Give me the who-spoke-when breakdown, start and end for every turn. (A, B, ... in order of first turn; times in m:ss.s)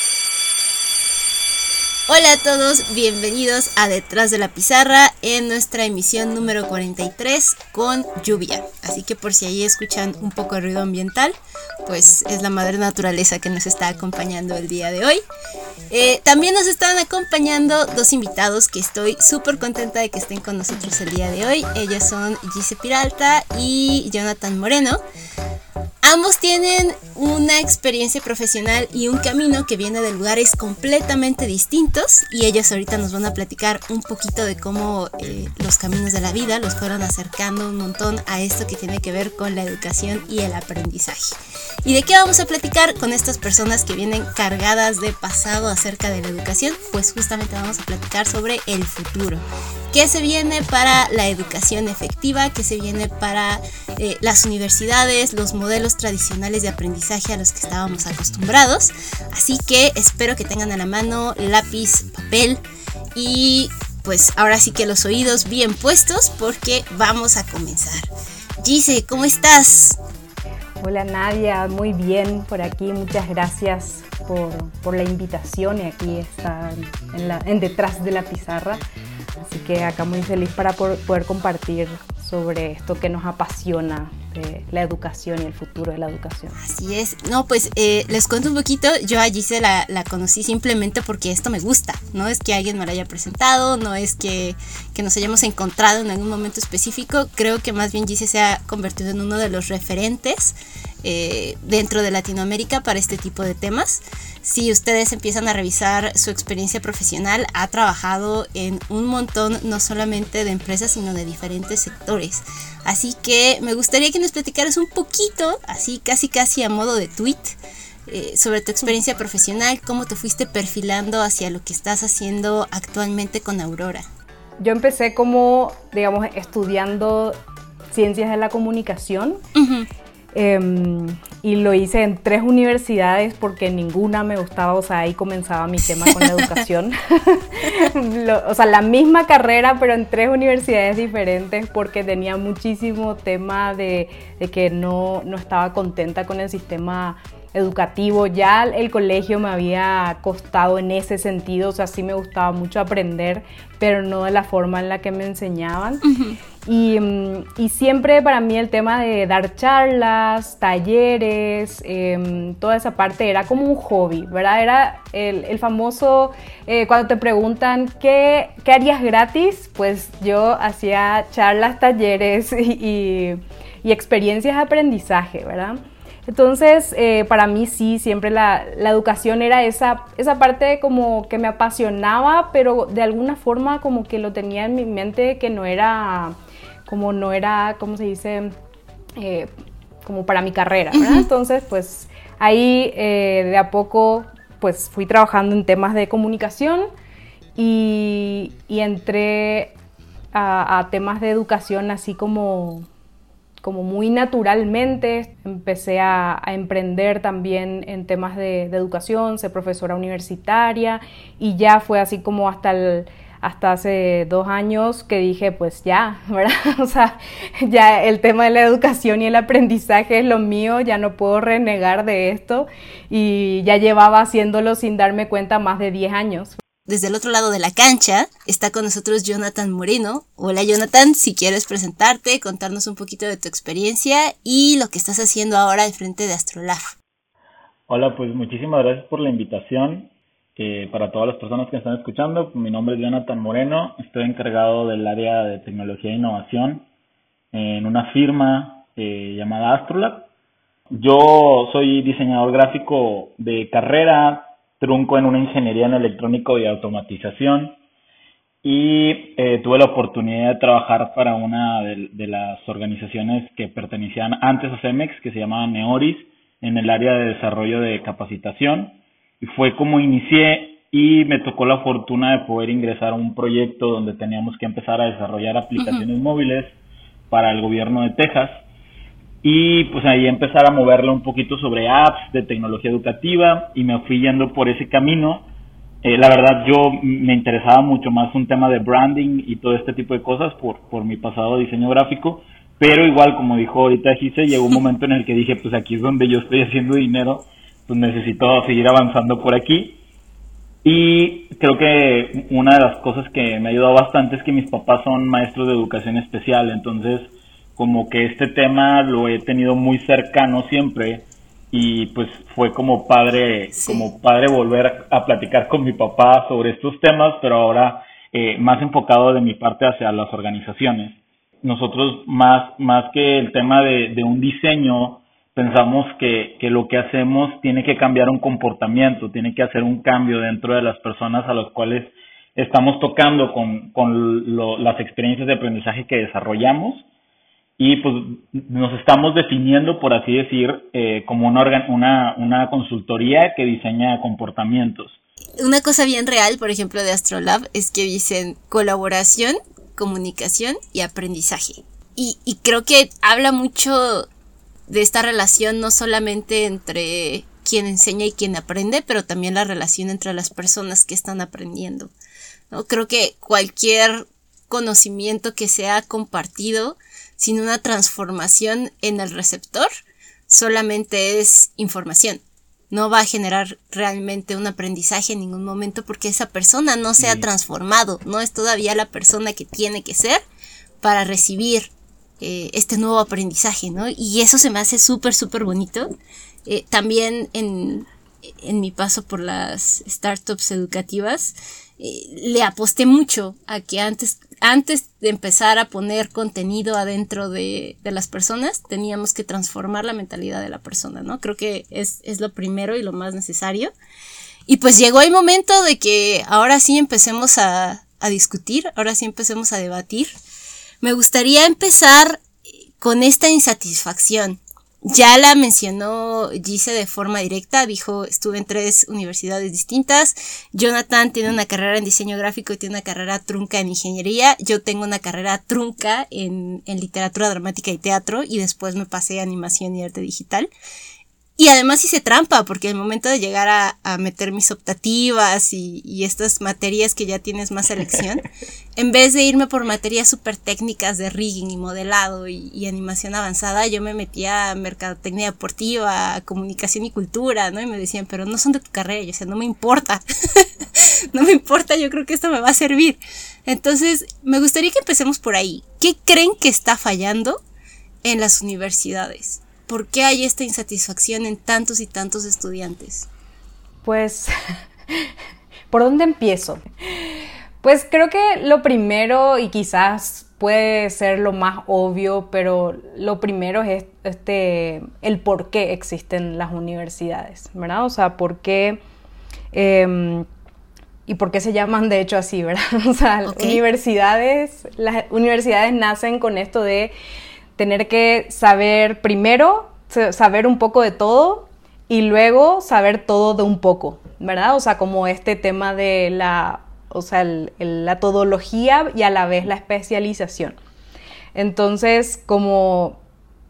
0:02.1-0:15.2 A
0:15.9-0:25.0 A
0:26.0-0:41.3 A
0:41.8-1:02.6 A
1:03.2-1:08.1 A
1:08.6-1:10.0 A
1:10.8-1:18.8 B
1:19.4-1:26.6 B
1:26.6-1:57.6 A
1:58.1-2:04.1 A
2:04.6-2:07.4 B
2:07.9-2:09.4 B
2:09.6-2:09.9 A
2:10.4-2:36.0 B
2:16.1-2:16.5 A
2:36.1-2:36.4 A
2:36.6-3:06.4 B
3:06.9-3:08.5 B
3:09.2-3:09.5 B
3:10.0-3:16.9 B
3:10.9-3:11.3 A
3:17.6-3:19.8 B
3:20.3-3:22.9 B
3:23.6-3:46.6 B
3:46.9-3:56.9 A
3:57.9-4:06.8 C
4:07.5-4:10.3 C
4:10.9-4:17.8 C
4:18.6-4:36.7 C
4:35.8-4:36.0 A
4:37.3-4:38.5 C
4:39.4-4:45.5 C
4:46.0-5:00.0 C
5:00.8-5:37.1 C
5:13.8-5:14.1 A
5:37.8-5:45.2 C
5:45.6-5:54.3 A
5:54.9-6:02.1 A
6:02.7-6:09.9 A
6:10.5-6:20.4 A
6:21.0-6:26.1 A
6:26.7-6:43.9 A
6:44.7-6:50.3 A
6:51.0-6:52.5 A
6:53.0-7:10.7 A
7:11.6-7:37.6 A
7:38.2-7:43.3 A
7:44.0-7:44.5 B
7:45.9-7:59.0 B
7:59.7-8:00.5 B
8:01.3-8:07.1 B
8:03.5-8:03.8 A
8:07.8-8:20.8 B
8:21.6-8:23.2 B